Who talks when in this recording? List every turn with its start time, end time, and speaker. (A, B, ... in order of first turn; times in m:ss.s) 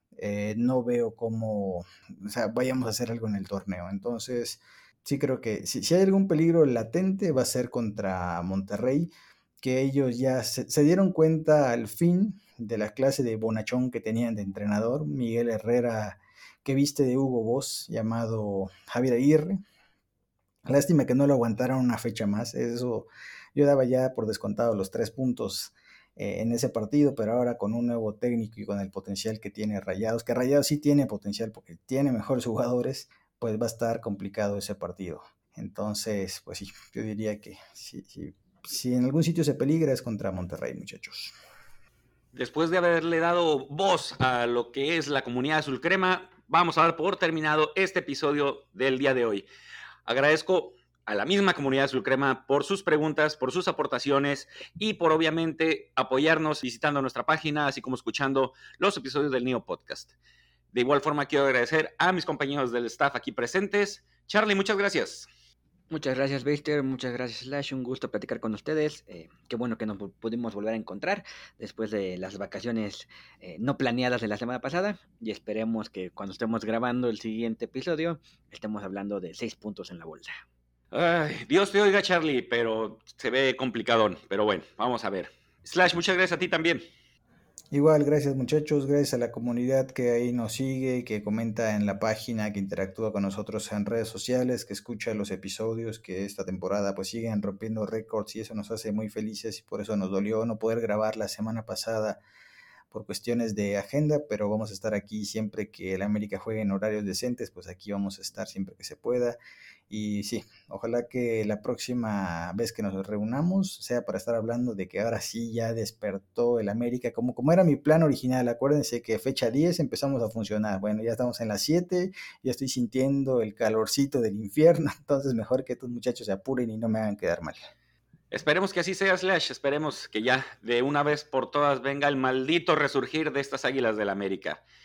0:00.2-0:19.6 A
0:20.6-0:41.3 A
0:42.3-0:49.4 B
0:50.0-1:00.1 B
1:00.7-1:05.3 B
1:05.9-1:20.4 C
1:20.9-1:26.8 B
1:27.7-1:42.2 A
1:42.9-1:49.4 A
1:49.9-2:07.7 A
2:08.3-2:14.6 B